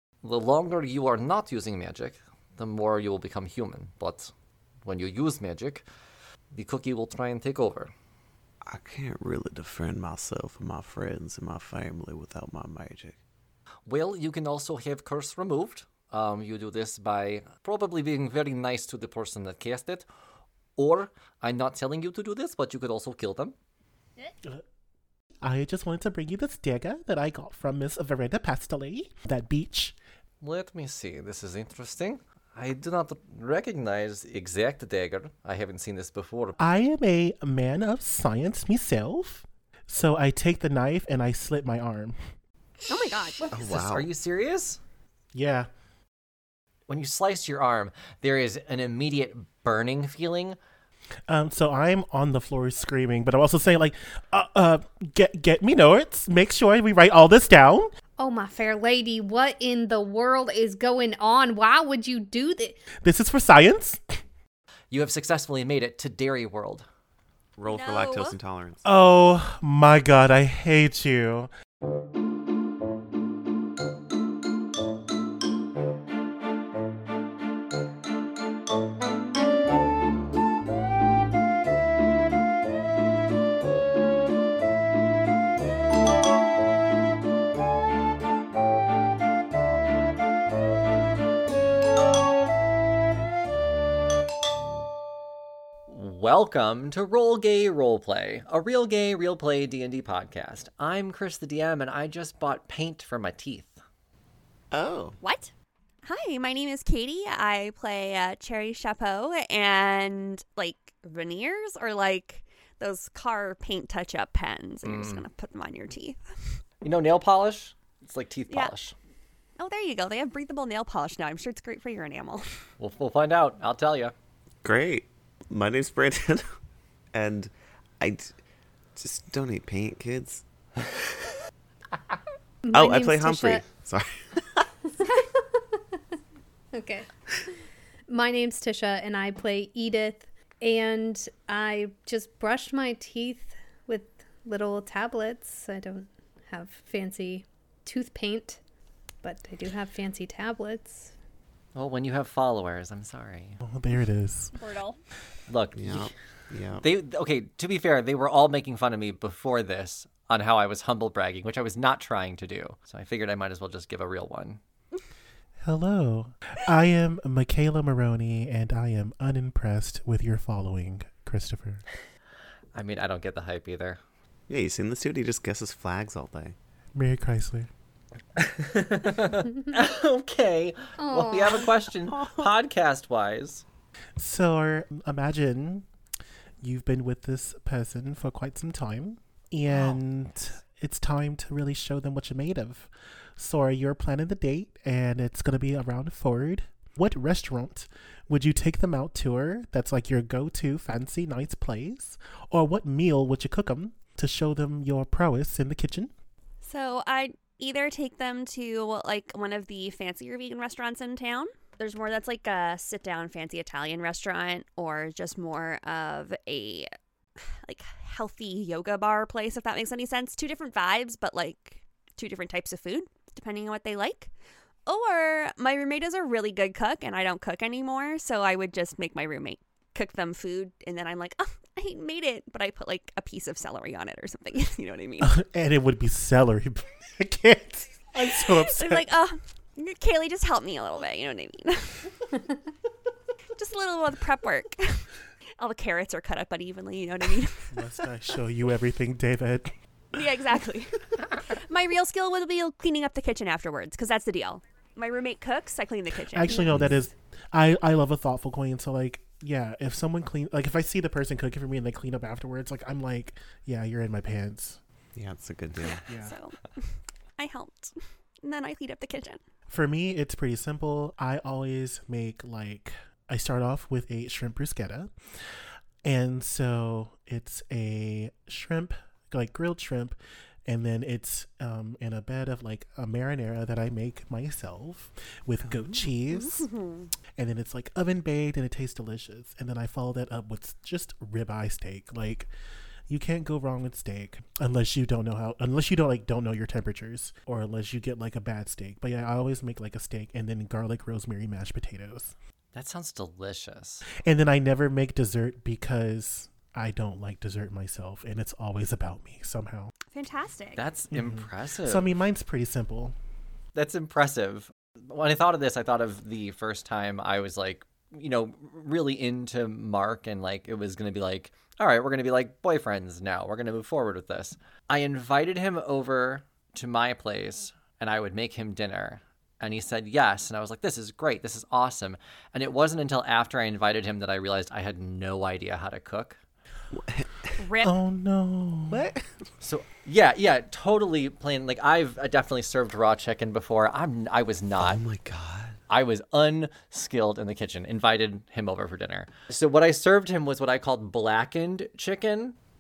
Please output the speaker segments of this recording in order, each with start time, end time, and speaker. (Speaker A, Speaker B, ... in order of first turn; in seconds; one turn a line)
Speaker A: 0.2-4.3
Speaker A: 4.8-5.8
Speaker A: 6.5-7.9
Speaker B: 8.7-13.2
Speaker A: 13.9-20.1
Speaker A: 20.8-23.6
Speaker C: 25.4-30.0
Speaker A: 30.4-36.6
Speaker C: 36.6-42.2
Speaker A: 42.8-44.8
Speaker D: 42.9-43.5
Speaker B: 43.5-44.1
Speaker C: 45.3-45.7
Speaker A: 46.9-50.6
Speaker C: 51.3-57.9
Speaker E: 58.2-62.8
Speaker C: 63.0-64.0
Speaker A: 64.9-66.9
Speaker B: 67.6-68.8
Speaker D: 67.7-68.4
Speaker C: 68.8-71.5
Speaker A: 95.9-103.8
Speaker B: 104.7-105.2
Speaker D: 105.2-105.5
Speaker D: 106.0-116.3
Speaker A: 114.8-115.3
Speaker A: 116.8-118.9
Speaker D: 119.6-122.6
Speaker A: 122.8-124.1
Speaker B: 124.6-126.5
Speaker B: 127.1-128.3
Speaker B: 129.0-130.4
Speaker E: 132.6-133.7
Speaker B: 132.7-134.7
Speaker E: 135.0-136.0
Speaker E: 136.7-137.1
Speaker E: 138.1-148.6
Speaker E: 149.2-151.1
Speaker A: 151.8-153.6
Speaker C: 153.6-154.5
Speaker D: 154.5-155.0
Speaker A: 155.5-156.1
Speaker B: 155.8-156.8
Speaker A: 156.8-164.6
Speaker C: 165.6-171.8
Speaker A: 172.7-174.0
Speaker B: 174.5-176.6
Speaker C: 176.9-177.7
Speaker A: 178.4-183.6
Speaker E: 181.0-181.7
Speaker B: 182.1-182.5
Speaker C: 184.2-185.9
Speaker C: 186.6-206.1
Speaker B: 189.7-190.0
Speaker D: 206.6-216.9
Speaker D: 217.5-224.3
Speaker D: 224.9-235.4
Speaker C: 235.2-239.1
Speaker D: 238.3-242.2
Speaker D: 243.6-245.1
Speaker D: 245.6-247.8
Speaker C: 247.7-249.7
Speaker D: 250.1-256.7
Speaker C: 256.3-264.8
Speaker B: 256.5-257.0
Speaker B: 265.2-266.0
Speaker D: 265.8-269.4
Speaker C: 266.1-266.4
Speaker C: 269.7-275.1
Speaker C: 276.0-286.7
Speaker B: 285.6-286.1
Speaker D: 286.3-287.1
Speaker C: 287.4-292.5
Speaker C: 293.1-302.3
Speaker A: 302.7-304.1
Speaker C: 304.2-309.9
Speaker D: 310.1-310.8
Speaker A: 310.8-312.1
Speaker C: 311.1-313.1
Speaker A: 313.8-336.4
Speaker B: 336.9-337.6
Speaker D: 337.6-337.9
Speaker C: 337.8-339.1
Speaker B: 338.9-339.2
Speaker A: 339.6-345.0
Speaker B: 344.8-345.8
Speaker A: 345.9-352.6